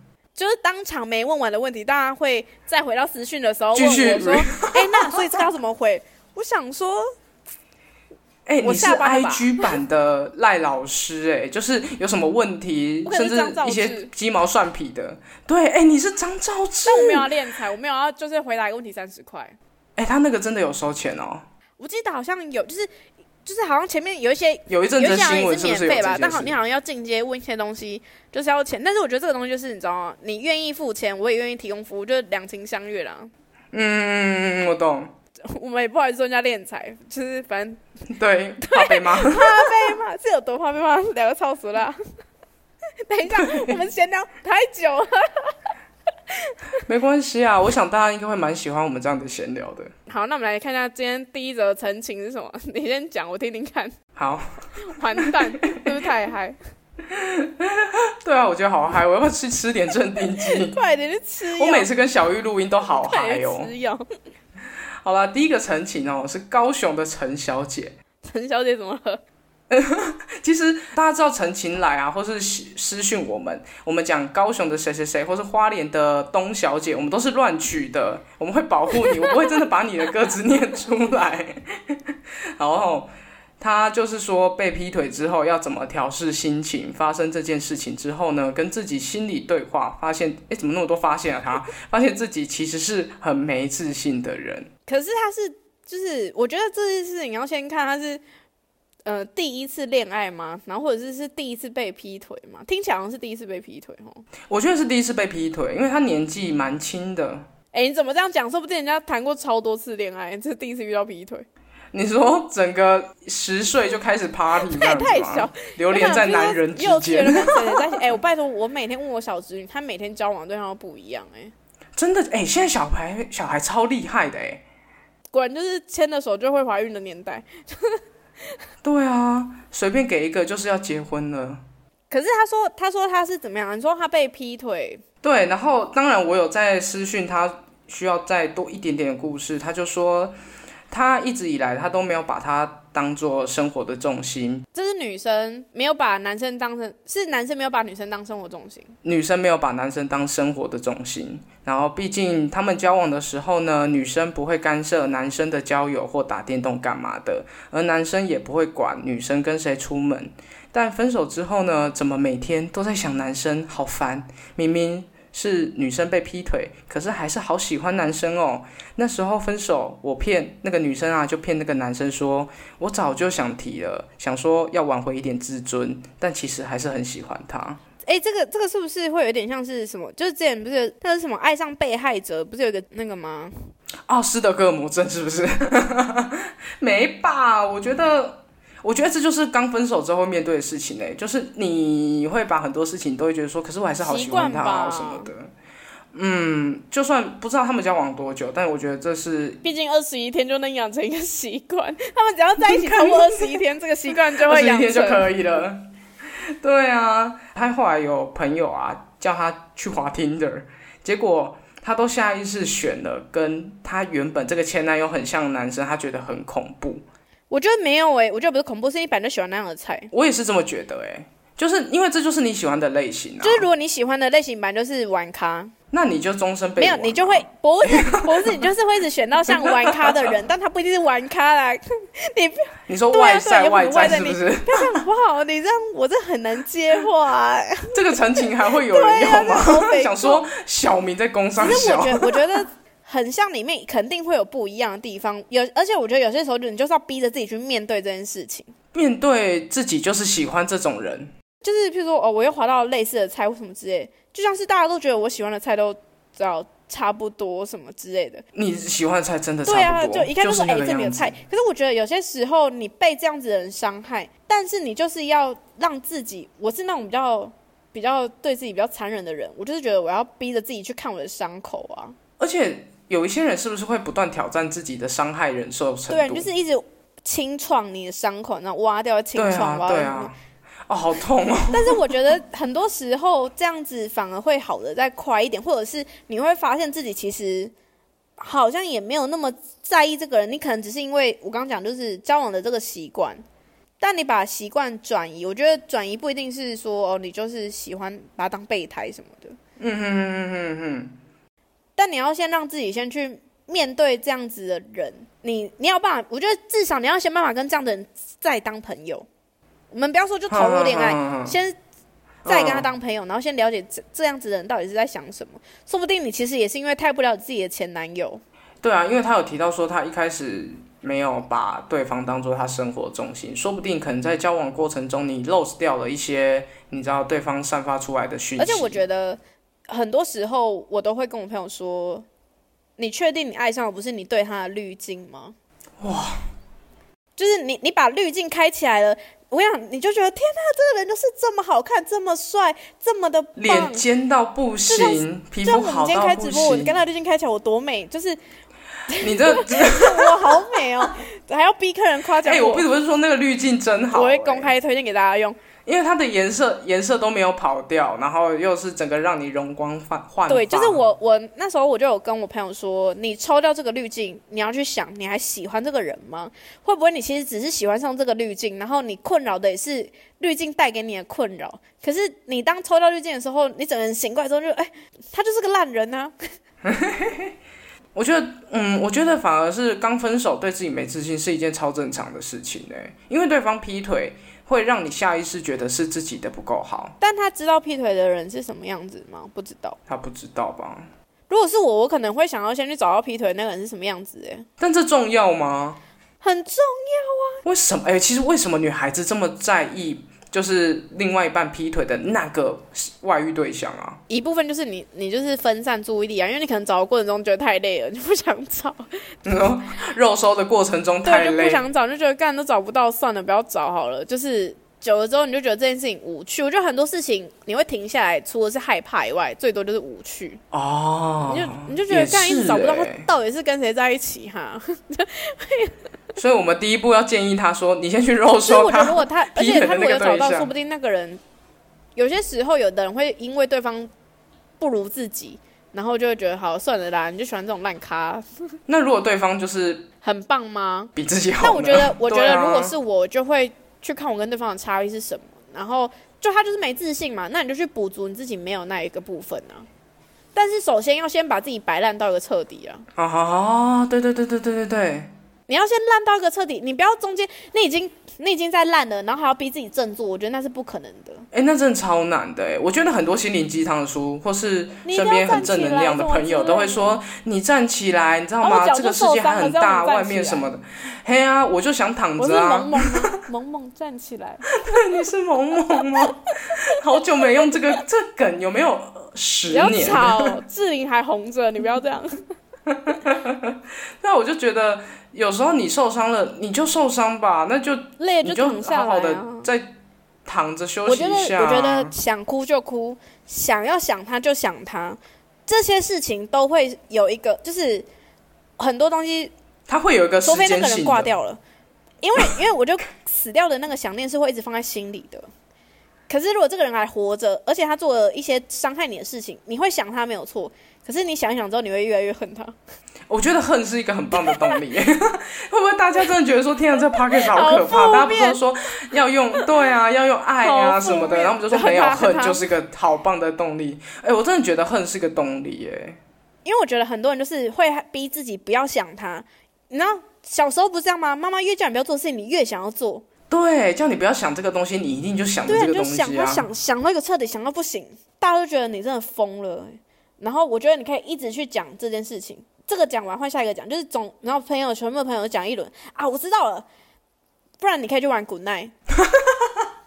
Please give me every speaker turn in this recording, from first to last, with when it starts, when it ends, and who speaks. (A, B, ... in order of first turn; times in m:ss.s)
0:00.3-0:07.0 A
0:03.7-0:05.4 B
0:08.5-0:17.3 B
0:08.6-0:09.7 A
0:13.0-0:14.1 A
0:16.8-0:19.6 A
0:20.0-0:21.4 B
0:21.8-0:22.9 A
0:23.4-0:33.3 A
0:24.7-0:26.5 B
0:33.7-0:35.1 B
0:35.4-0:37.8 A
0:38.1-0:39.9 B
0:38.6-0:42.0 A
0:43.1-0:45.5 A
0:43.3-0:43.8 B
0:46.3-0:46.5 A
0:46.8-0:49.9 B
0:50.1-0:53.9 A
0:54.2-0:55.8 B
0:54.8-0:56.6 A
0:57.1-1:00.8 B
1:00.4-1:01.9 A
1:01.5-1:03.7 B
1:02.9-1:04.0 A
1:05.0-1:08.0 B
1:08.2-1:09.2 A
1:09.7-1:34.7 B
1:34.9-1:38.2 A
1:39.0-1:44.2 A
1:44.5-1:47.4 B
1:47.7-1:51.4 A
1:51.9-1:57.7 B
1:54.7-2:01.5 A
2:02.0-2:04.6 B
2:05.3-2:08.0 A
2:08.8-2:11.6 B
2:12.1-2:15.0 A
2:15.2-2:20.3 B
2:20.9-2:24.6 B
2:24.7-2:28.9 A
2:29.0-2:57.8 B
2:58.0-3:03.7 A
3:04.1-3:15.5 B
3:14.0-3:15.3 A
3:16.1-3:19.6 B
3:19.6-3:25.4 A
3:22.6-3:23.6 B
3:24.3-3:25.8 B
3:26.6-3:37.0 B
3:37.5-3:40.1 A
3:40.1-3:43.6 B
3:43.4-3:45.7 A
3:45.9-3:48.6 B
3:46.8-4:00.4 A
3:49.5-3:50.2 B
3:52.9-3:55.0 B
3:57.9-4:02.6 B
4:01.6-4:08.7 A
4:08.9-4:11.3 B
4:11.6-4:18.4 A
4:18.5-4:21.4 B
4:19.6-4:32.2 A
4:32.4-4:36.5 B
4:36.1-4:40.3 A
4:39.3-4:40.3 B
4:40.9-4:42.0 B
4:41.7-4:47.7 A
4:48.4-4:53.4 A
4:54.0-4:59.6 A
4:59.8-5:01.1 B
5:02.0-5:09.2 A
5:09.9-5:11.8 A
5:10.5-5:11.6 B
5:12.4-5:12.9 B
5:12.4-5:18.4 A
5:18.8-5:29.0 B
5:28.6-5:32.2 A
5:33.0-5:35.5 A
5:36.0-5:36.4 B
5:37.4-5:44.0 A
5:43.6-5:47.0 B
5:44.9-5:48.4 A
5:49.1-5:52.9 A
5:49.2-5:50.8 B
5:52.4-5:54.7 B
5:54.1-5:55.6 A
5:55.8-6:01.0 B
6:00.5-6:16.3 A
6:16.8-6:17.5 B
6:18.1-6:27.1 B
6:27.2-6:30.0 A
6:30.1-6:31.1 B
6:31.5-6:34.7 A
6:34.8-6:36.0 B
6:36.4-6:37.6 A
6:37.6-6:44.2 B
6:44.3-6:49.0 A
6:49.4-6:51.8 B
6:51.2-7:00.6 A
7:00.7-7:03.3 B
7:01.4-7:06.0 A
7:06.4-7:10.7 B
7:08.5-7:11.4 A
7:12.1-7:14.1 A
7:14.8-7:18.5 A
7:18.9-7:20.1 B
7:20.2-7:29.9 A
7:21.2-7:22.9 B
7:30.5-7:33.0 A
7:33.2-7:35.3 B
7:35.7-7:41.4 A
7:41.5-7:53.4 B
7:45.0-7:47.2 A
7:48.6-7:50.7 A
7:52.4-7:54.6 A
7:54.7-8:00.5 B
7:56.2-7:56.9 A
7:59.7-8:02.4 A
8:02.9-8:09.9 B
8:08.2-8:09.7 A
8:10.4-8:12.1 B
8:11.0-8:18.1 A
8:18.8-8:19.5 A
8:19.9-8:21.3 B
8:20.4-8:21.6 A
8:22.2-8:25.5 A
8:26.3-8:32.8 A
8:33.3-8:46.2 B
8:34.4-8:34.8 A
8:37.2-8:38.6 A
8:40.6-8:42.7 A
8:46.6-8:53.2 A
8:53.5-8:56.6 B
8:55.7-9:06.9 A
9:07.8-9:08.9 A